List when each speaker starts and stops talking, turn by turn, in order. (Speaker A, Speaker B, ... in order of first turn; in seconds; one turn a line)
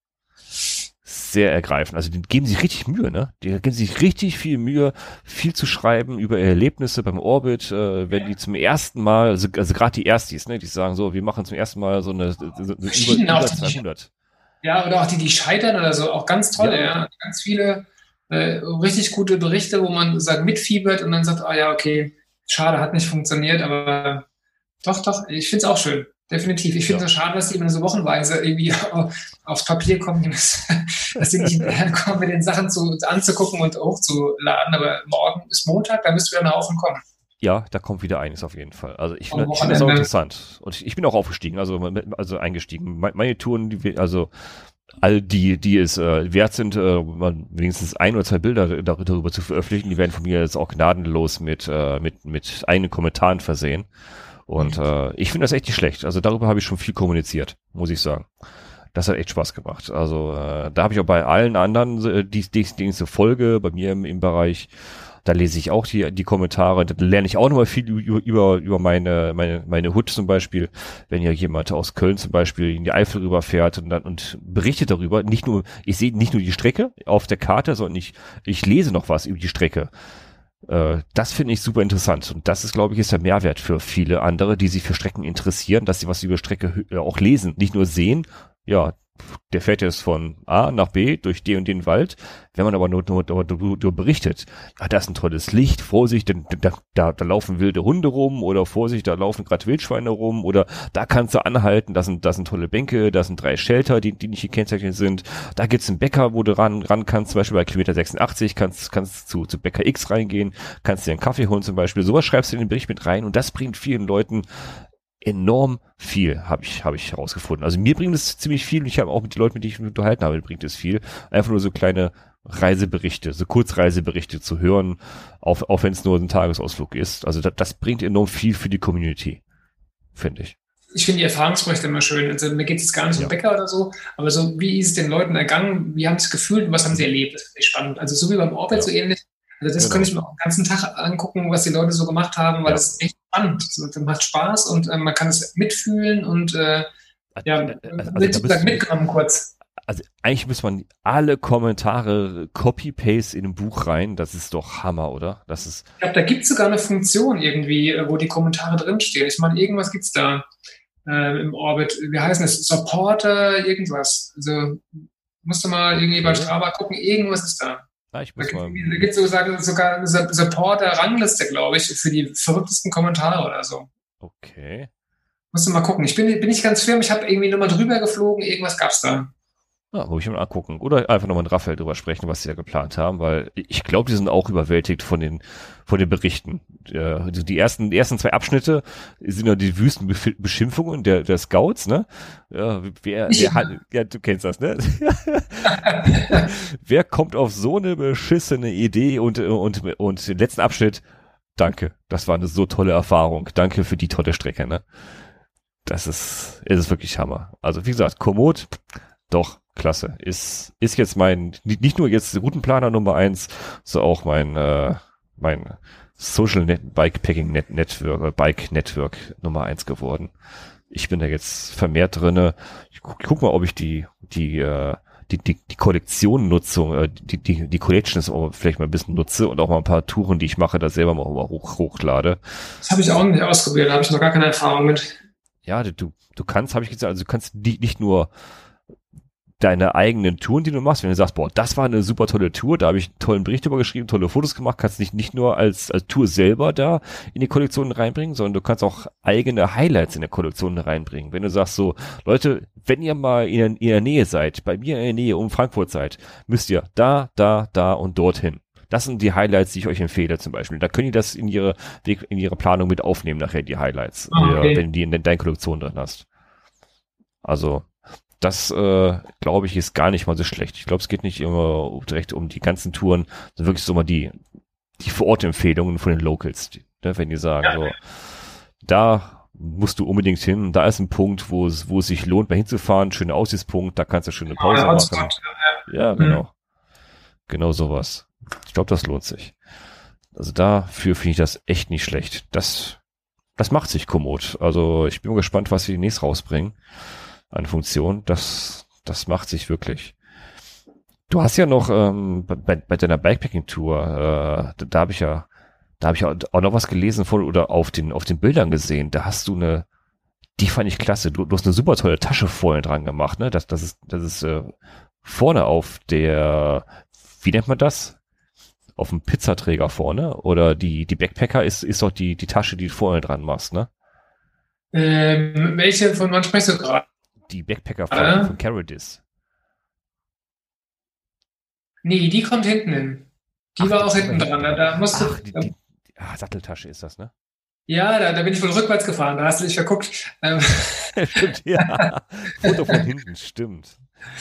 Speaker A: 1.0-14.1
Speaker B: 12.9-13.8
Speaker B: 14.6-24.2
Speaker A: 16.6-16.9
Speaker B: 24.8-37.0
Speaker A: 31.3-31.7
Speaker A: 37.4-53.9
Speaker B: 39.3-40.1
Speaker A: 54.5-58.3
Speaker A: 58.9-64.7
Speaker A: 65.2-79.9
Speaker A: 80.7-129.4
Speaker A: 130.2-130.6
Speaker B: 130.9-146.9
Speaker A: 139.8-140.1
Speaker A: 142.7-142.9
Speaker A: 147.4-148.8
Speaker B: 147.5-149.5
Speaker A: 149.9-155.9
Speaker B: 156.0-160.5
Speaker B: 161.1-167.8
Speaker A: 166.1-166.5
Speaker A: 168.1-169.1
Speaker B: 168.4-173.9
Speaker A: 174.2-174.9
Speaker B: 175.5-179.3
Speaker A: 179.9-201.0
Speaker B: 193.3-193.7
Speaker B: 195.7-196.5
Speaker A: 201.6-204.8
Speaker A: 205.8-220.3
Speaker A: 220.9-232.6
Speaker B: 232.8-235.1
Speaker A: 235.7-238.3
Speaker A: 239.6-266.3
Speaker B: 264.3-264.8
Speaker A: 267.4-267.9
Speaker A: 268.4-274.4
Speaker A: 275.0-285.4
Speaker B: 284.6-286.4
Speaker A: 285.9-286.5
Speaker A: 287.5-289.6
Speaker A: 290.4-293.0
Speaker A: 293.6-296.8
Speaker A: 297.5-300.1
Speaker A: 301.3-305.5
Speaker A: 306.0-309.9
Speaker A: 310.6-316.9
Speaker A: 317.4-318.2
Speaker A: 319.0-323.9
Speaker B: 324.9-327.1
Speaker A: 327.5-329.2
Speaker B: 328.1-328.5
Speaker B: 332.0-335.7
Speaker A: 333.8-337.3
Speaker B: 337.9-341.2
Speaker A: 341.1-344.0
Speaker B: 341.8-342.1
Speaker B: 342.6-343.0